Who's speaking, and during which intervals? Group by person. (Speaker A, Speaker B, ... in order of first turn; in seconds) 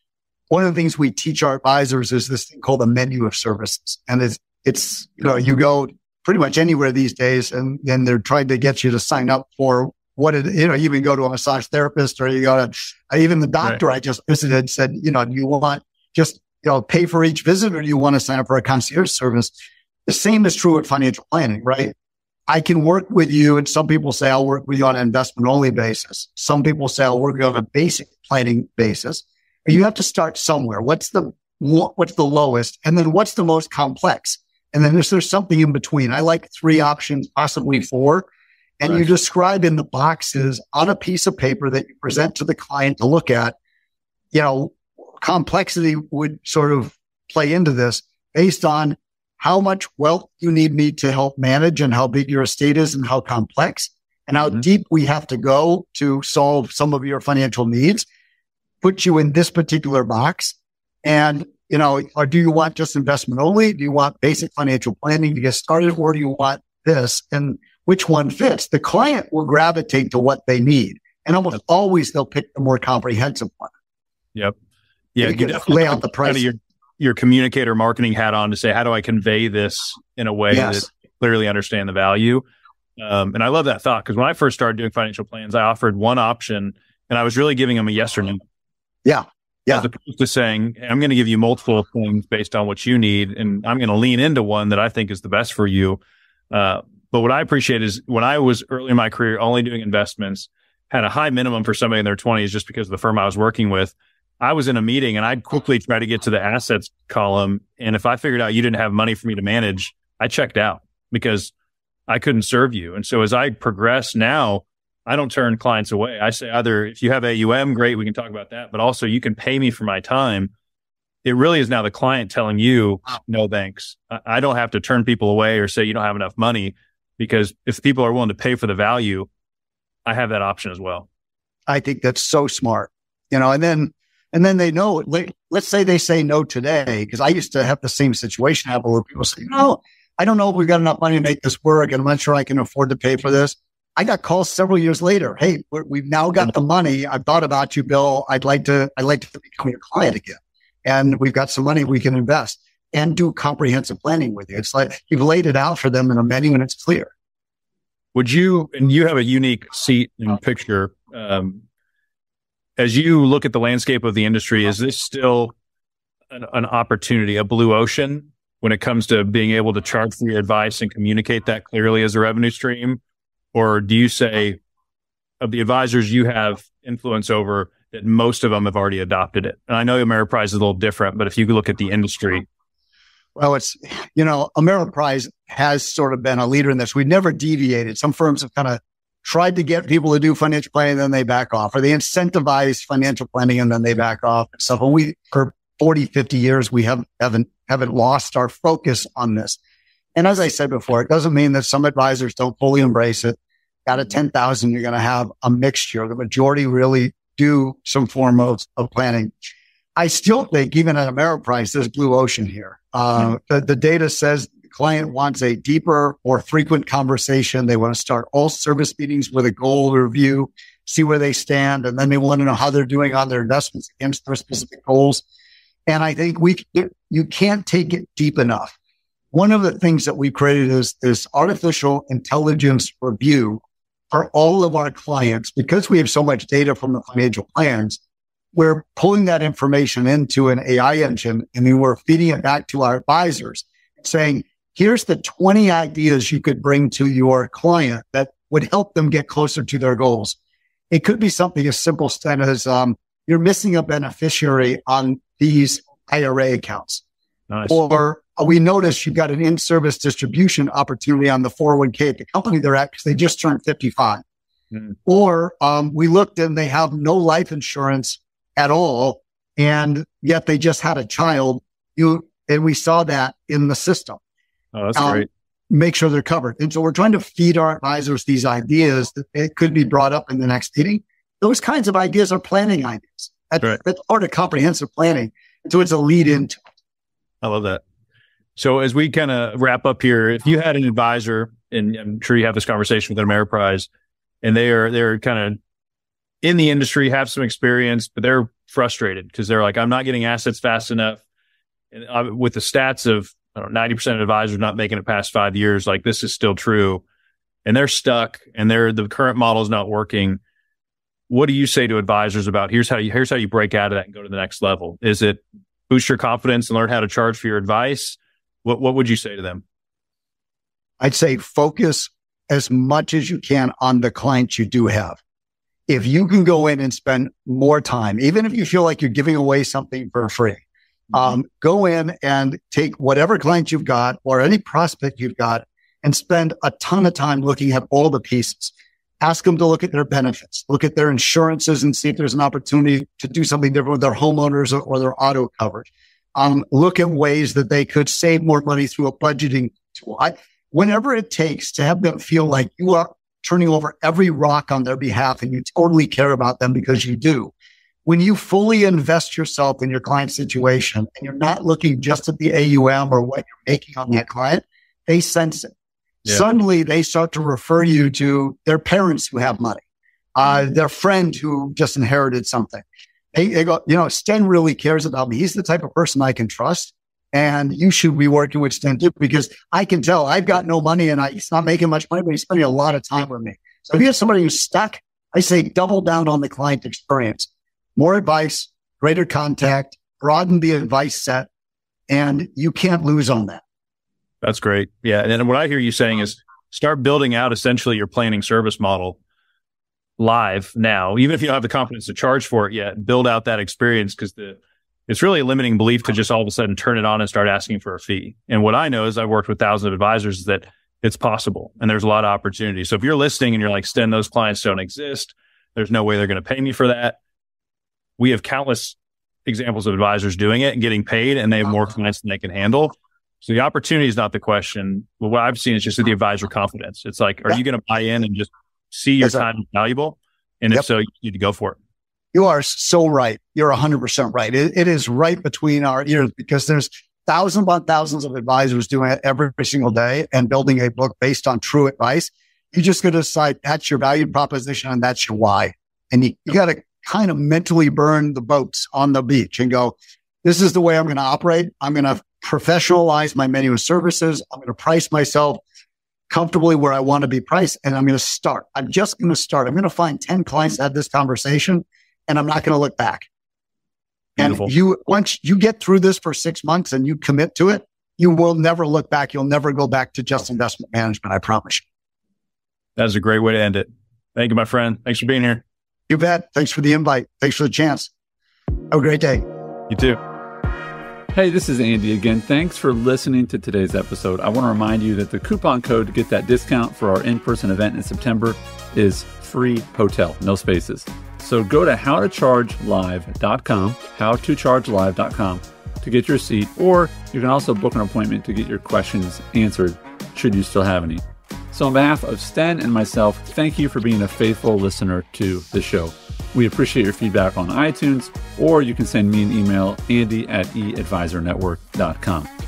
Speaker A: 0.5-19.5, 20.1-21.9, 22.5-38.2, 38.8-43.5, 44.3-58.0, 58.8-73.7, 75.2-76.4, 80.5-80.8, 89.0-89.9, 131.7-157.1, 183.3-199.6, 200.1-225.2, 225.9-228.7, 229.3-238.0, 238.5-250.3, 250.9-257.0, 257.7-264.2, 265.1-274.2, 274.9-286.6, 321.0-325.2, 325.9-357.5, 358.1-365.7, 366.2-369.8, 370.4-391.5, 392.1-393.6, 432.3-455.6, 456.3-463.3, 464.4-471.8, 476.1-478.1, 478.9-479.4
Speaker B: 75.1-82.4, 83.0-88.4, 89.7-96.0, 96.5-111.5, 112.1-120.5, 121.2-129.3, 130.1-131.1, 158.1-161.6, 162.8-165.5, 166.3-173.0, 173.5-174.6, 175.4-182.4, 257.5-257.8, 274.7-275.3, 287.4-287.8, 288.6-293.9, 294.4-295.6, 296.4-301.2, 301.9-307.0, 307.6-310.4, 311.3-319.6, 394.4-399.2, 400.2-417.2, 418.2-431.8, 464.4-464.7, 473.0-475.6, 479.9-480.2
Speaker C: 481.3-512.5